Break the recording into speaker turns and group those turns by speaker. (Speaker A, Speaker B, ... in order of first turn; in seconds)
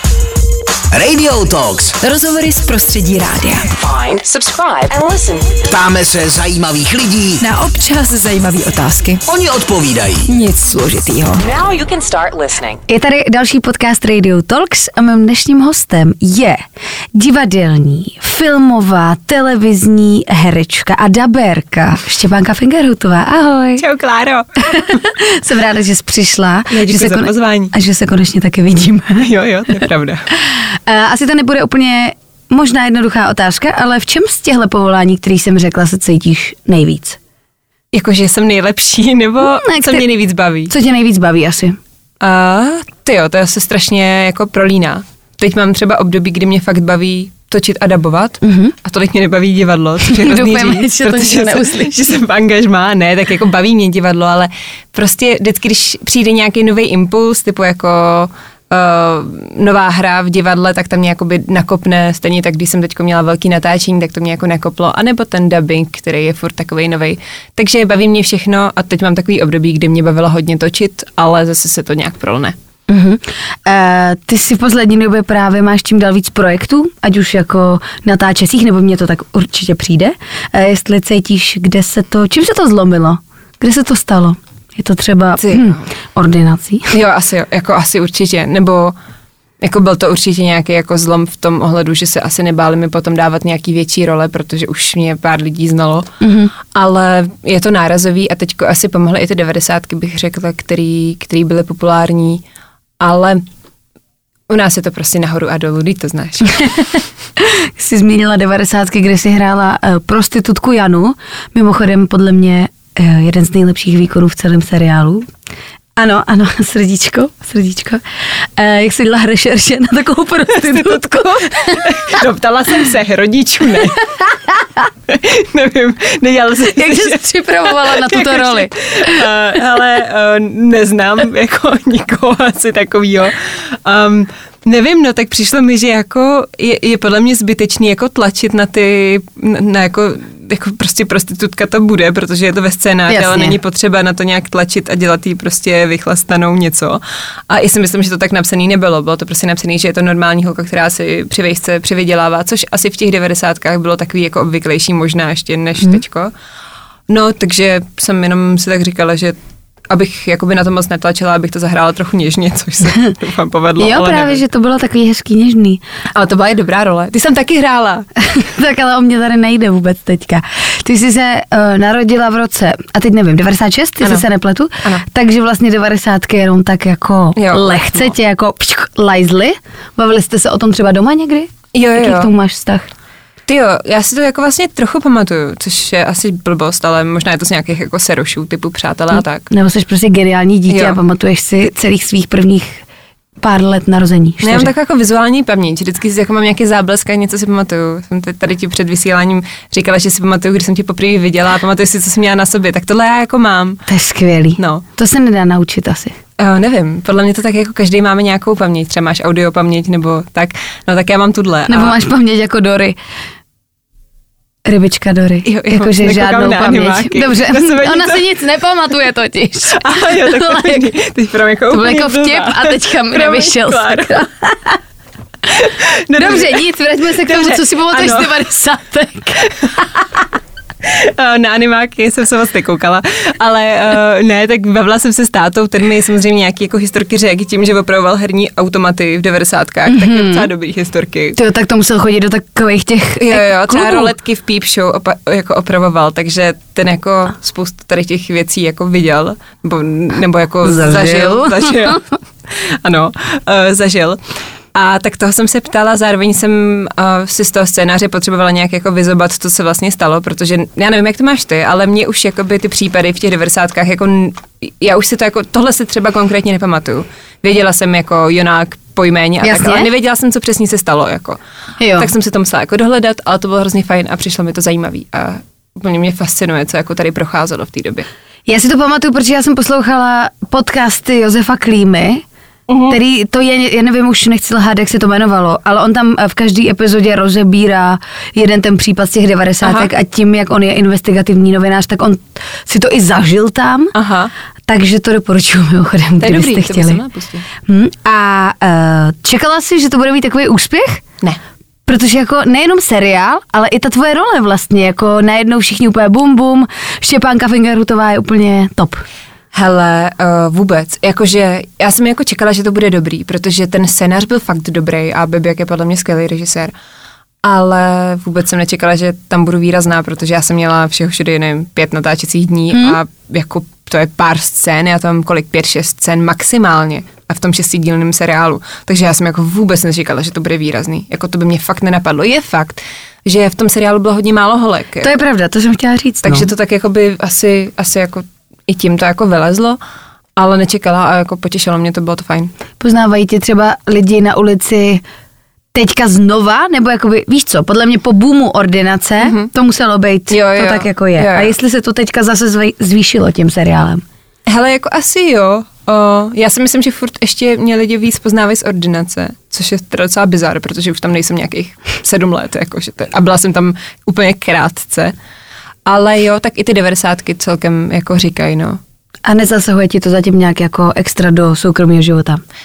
Speaker A: 0.9-2.0, 5.7-7.4, 9.3-10.3
Speaker B: 2.1-2.8, 3.4-5.6, 7.5-9.2, 10.6-12.8
Speaker C: 2.1-3.6, 7.4-9.2, 10.4-11.3
Speaker D: 12.9-23.9, 24.6-29.3, 30.6-37.2, 39.5-40.1, 40.7-41.8, 48.4-48.8, 50.0-52.0, 72.9-86.9, 96.2-96.5, 107.4-115.3, 116.0-121.9, 126.7-129.2, 143.1-143.6, 163.8-165.8, 168.2-182.9, 189.5-192.8, 193.4-194.7, 203.9-206.2, 211.7-213.0, 214.7-220.9, 221.7-224.8, 226.1-229.5, 239.9-240.5, 241.4-244.1, 250.6-251.7, 269.4-269.9, 271.8-272.1, 278.5-282.2, 282.9-293.9, 294.7-297.0, 297.6-301.0, 301.9-309.0, 335.0-336.5, 342.8-345.0, 345.7-354.0, 369.2-372.4
Speaker E: 23.8-24.5, 26.7-27.7, 29.2-30.2, 37.9-40.7, 42.2-72.5, 85.4-85.8, 86.9-89.0, 89.6-96.1, 96.7-102.4, 103.0-103.4, 104.5-106.6, 120.5-124.0, 125.1-156.3, 157.1-159.4, 159.9-164.4, 166.1-168.1, 174.0-174.3, 177.4-178.1, 181.7-182.3, 183.5-189.5, 190.7-191.0, 194.4-203.8, 204.6-204.8, 206.4-212.0, 215.4-218.3, 219.7-224.2, 225.5-228.4, 229.6-230.2, 230.8-241.4, 243.2-254.2, 254.7-271.4, 272.0-278.1, 282.7-283.0, 289.6-289.9, 293.9-294.3, 296.2-297.5, 309.5-316.7, 317.4-335.1, 336.2-339.8, 340.4-342.5, 349.2-349.5, 350.3-351.6, 354.5-365.1, 365.9-368.8